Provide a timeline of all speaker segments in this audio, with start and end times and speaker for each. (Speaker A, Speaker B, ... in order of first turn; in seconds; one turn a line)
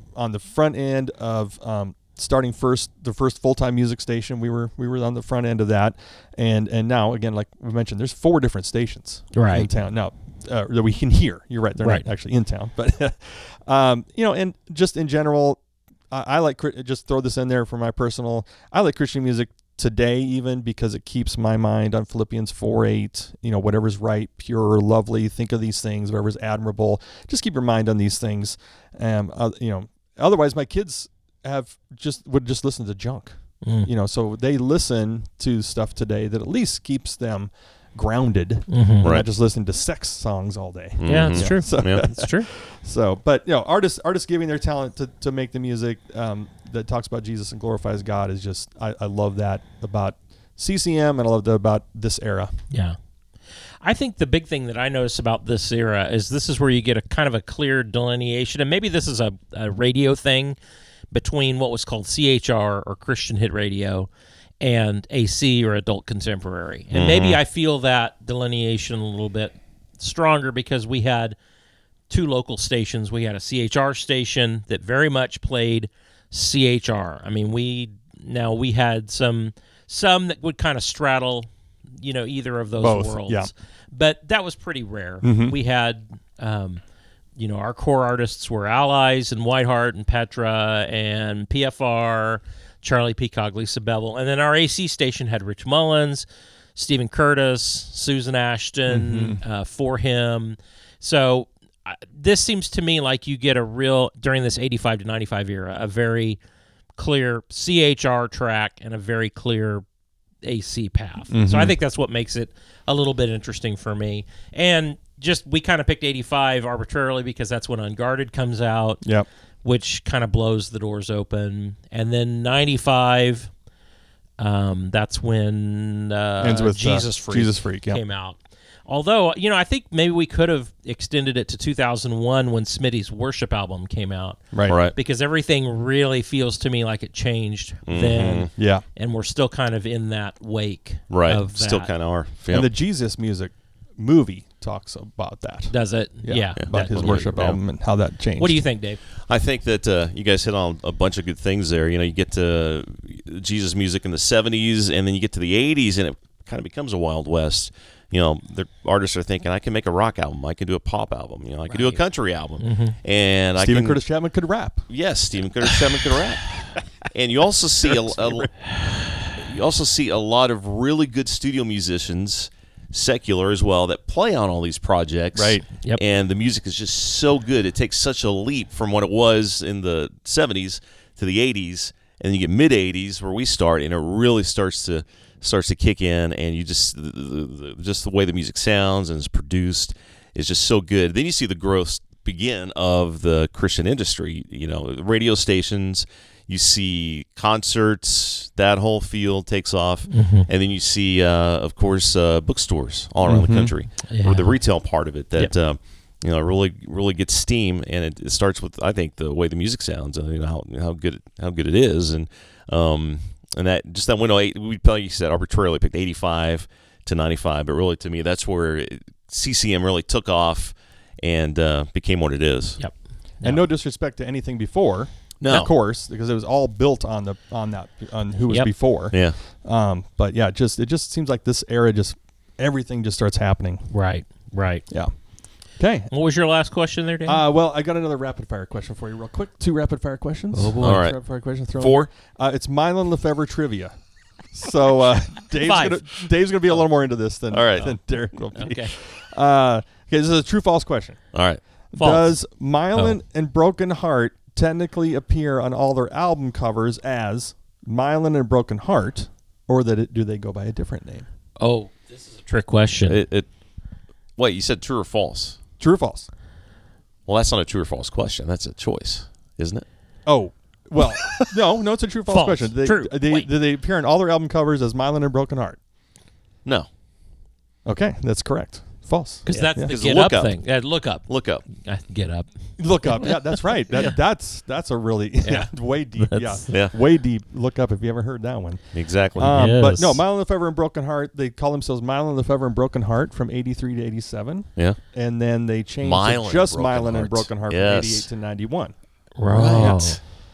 Speaker A: 0.1-52.5
Speaker B: 9.3-9.7
Speaker B: 11.8-12.1
Speaker B: 33.6-33.9
Speaker B: 38.7-39.1
Speaker C: 41.0-42.0
Speaker B: 41.0-42.5
Speaker B: 52.7-53.0
Speaker B: 53.8-60.6
Speaker B: 61.1-64.1
Speaker B: 64.6-71.4
Speaker C: 66.9-67.4
Speaker B: 72.1-86.8
Speaker A: 82.8-83.5
Speaker A: 85.2-85.5
Speaker B: 87.4-106.4
Speaker A: 98.9-99.4
Speaker B: 107.0-109.8
Speaker B: 110.4-119.0
Speaker A: 111.3-111.8
Speaker A: 119.0-119.3
Speaker B: 119.6-123.5
Speaker B: 124.4-141.9
Speaker A: 126.4-128.0
Speaker A: 134.5-134.8
Speaker C: 134.7-134.9
Speaker C: 137.9-138.5
Speaker A: 138.6-138.8
Speaker C: 141.1-142.7
Speaker A: 142.5-148.6
Speaker B: 145.7-147.6
Speaker C: 146.6-147.6
Speaker B: 148.4-149.0
Speaker C: 149.3-164.0
Speaker B: 161.7-162.0
Speaker B: 162.6-163.0
Speaker A: 163.6-164.9
Speaker C: 164.9-168.5
Speaker A: 167.8-168.6
Speaker C: 169.3-222.8
Speaker A: 175.3-175.6
Speaker B: 200.1-200.5
Speaker A: 203.2-203.7
Speaker B: 204.1-204.6
Speaker B: 222.8-223.6
Speaker A: 223.4-233.9
Speaker C: 225.4-225.7
Speaker C: 229.1-229.4
Speaker B: 233.9-234.9
Speaker A: 235.8-236.1
Speaker B: 236.1-237.4
Speaker A: 237.3-243.9
Speaker B: 240.5-241.0
Speaker C: 240.8-241.2
Speaker C: 241.7-242.1
Speaker A: 244.5-251.2
Speaker B: 245.6-246.0
Speaker C: 247.5-248.0
Speaker B: 248.6-248.9
Speaker C: 251.3-251.6
Speaker A: 251.9-261.3
Speaker B: 252.0-252.3
Speaker B: 261.6-263.2
Speaker C: 263.1-263.5
Speaker C: 264.4-265.6
Speaker A: 265.8-266.3
Speaker C: 267.3-269.9
Speaker A: 270.3-275.8
Speaker C: 271.2-271.5
Speaker B: 272.3-273.5
Speaker A: 277.9-279.9
Speaker B: 279.5-282.5
Speaker C: 279.5-280.6
Speaker C: 281.3-281.6
Speaker A: 282.8-288.8
Speaker B: 283.1-283.4
Speaker B: 285.4-286.7
Speaker C: 288.9-289.6
Speaker A: 289.4-298.9
Speaker B: 289.4-290.2
Speaker C: 296.0-298.3
Speaker B: 299.4-300.2
Speaker C: 299.5-300.2
Speaker A: 299.8-300.1